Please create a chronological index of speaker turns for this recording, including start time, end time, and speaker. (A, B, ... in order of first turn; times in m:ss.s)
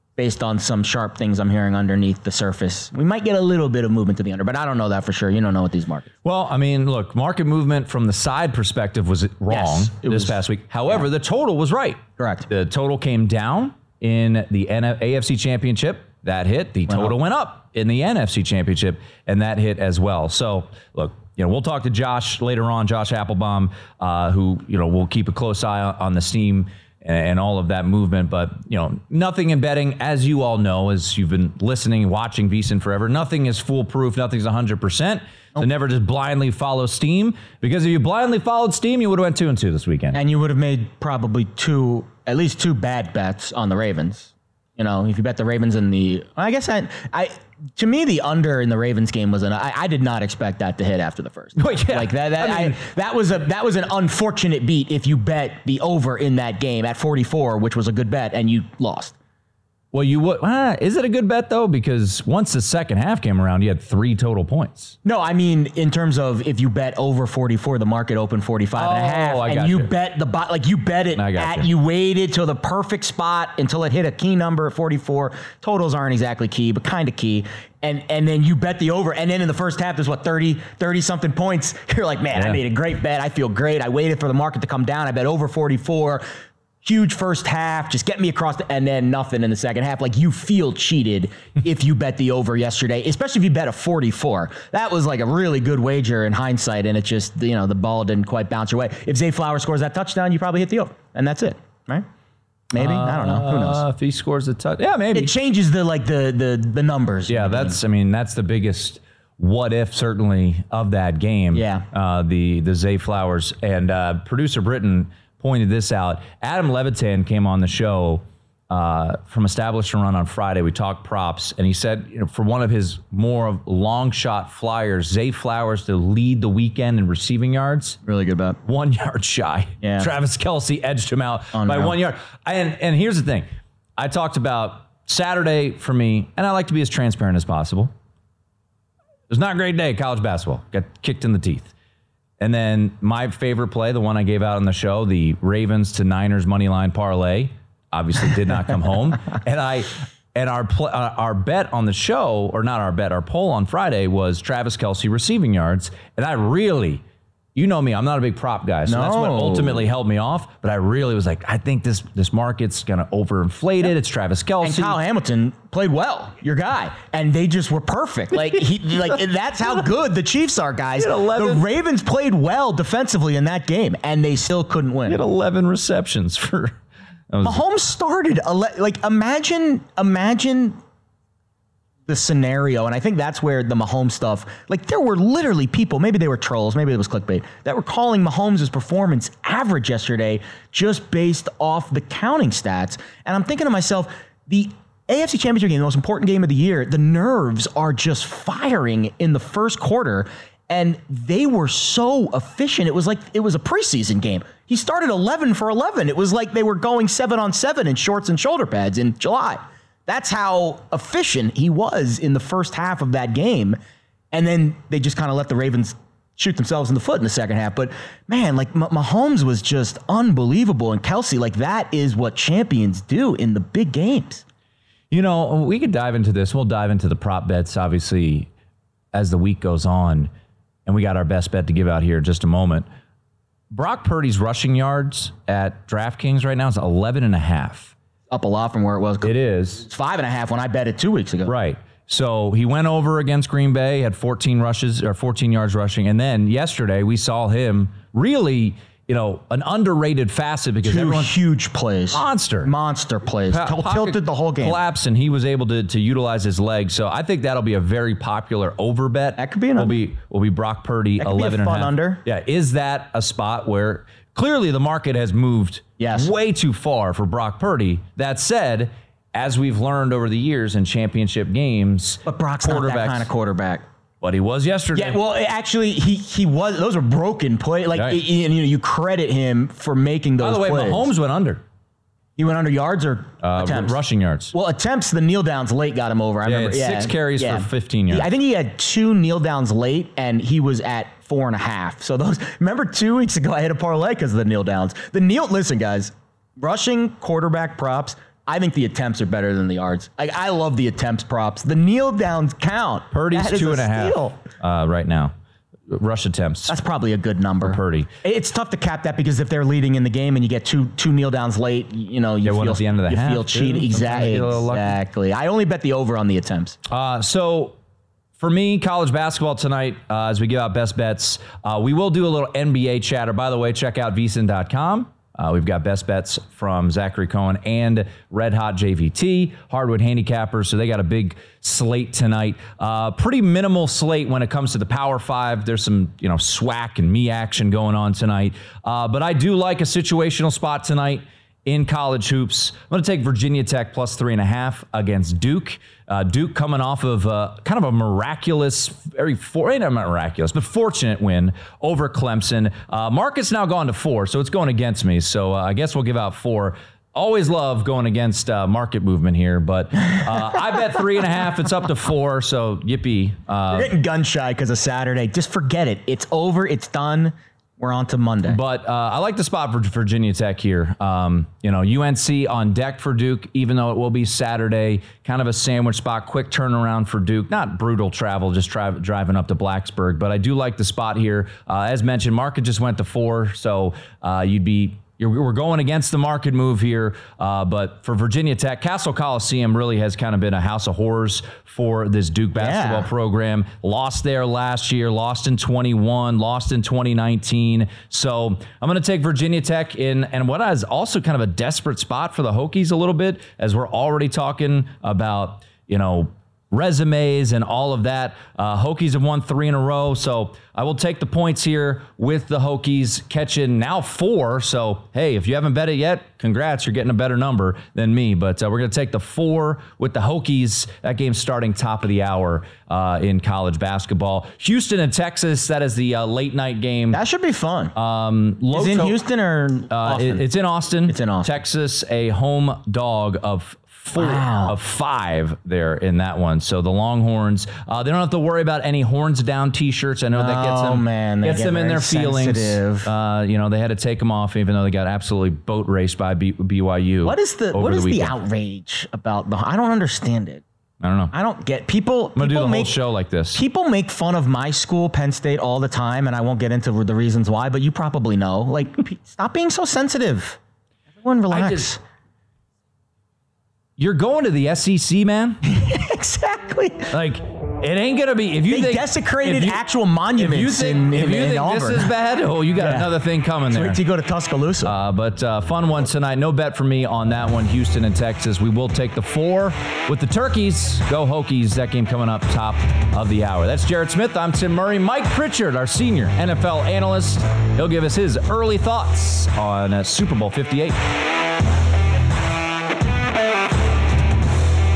0:00.2-0:06.1 A
0:06.2-0:40.2 B
0:09.5-0:11.0 A
0:12.2-0:12.5 A
0:16.9-0:17.2 A
0:40.1-0:59.2 A
0:51.6-0:52.8 B
0:59.9-1:05.0 B
1:05.0-1:26.2 A
1:08.8-1:09.9 B
1:11.2-1:11.7 B
1:22.3-1:22.6 B
1:26.8-1:42.1 A
1:42.7-1:43.8 A
1:42.8-1:45.3 B
1:45.1-1:47.8 A
1:47.3-2:08.0 B
1:51.5-1:51.8 A
2:08.0-2:08.6 A
2:08.6-2:13.5 B
2:09.8-2:10.1 A
2:11.5-2:12.0 A
2:14.0-2:17.9 B
2:19.3-2:21.7 B
2:22.4-2:37.0 B
2:37.6-2:45.0 B
2:38.9-2:39.8 A
2:44.6-2:55.2 A
2:51.0-2:51.7 B
2:55.1-2:56.8 B
2:57.3-2:57.6 B
2:57.4-3:00.8 A
3:02.1-3:33.8 A
3:34.3-3:44.4 A
3:45.1-3:48.5 B
3:49.1-3:50.3 B
3:50.9-3:52.9 B
3:53.7-3:57.9 B
3:58.3-4:01.5 A
3:59.2-3:59.8 B
4:01.5-4:11.3 B
4:10.8-4:14.8 A
4:12.1-4:12.7 B
4:13.5-4:33.3 B
4:19.4-4:20.0 A
4:21.2-4:22.2 A
4:26.0-4:26.3 A
4:32.3-4:33.8 A
4:34.2-4:35.2 B
4:34.9-4:41.1 A
4:37.9-4:38.2 B
4:40.4-4:41.6 B
4:42.4-4:44.0 A
4:43.4-4:44.5 B
4:44.5-5:04.4 A
4:46.4-4:48.3 B
5:03.1-5:05.3 B
5:05.9-5:06.8 B
5:06.7-5:16.8 A
5:07.6-5:08.1 B
5:12.4-5:15.0 B
5:16.9-5:17.7 B
5:18.4-6:03.9 B
6:03.7-6:08.6 A
6:08.5-7:07.2 B
6:32.6-6:33.1 A
7:07.1-7:07.9 A
7:08.0-7:09.2 B
7:08.7-7:10.5 A
7:09.9-7:28.4 B
7:11.1-7:11.5 A
7:14.1-7:14.8 A
7:20.4-7:23.1 A
7:27.2-7:30.6 A
7:31.0-7:31.3 B
7:31.3-7:33.0 A
7:32.4-7:33.6 B
7:33.5-7:40.6 A
7:41.2-7:42.0 A
7:41.5-7:42.0 B
7:44.0-7:45.6 B
7:45.7-7:47.1 A
7:47.1-7:49.8 B
7:48.7-7:52.1 A
7:50.4-7:54.0 B
7:52.8-7:53.1 A
7:53.7-7:54.9 A
7:54.8-8:11.0 B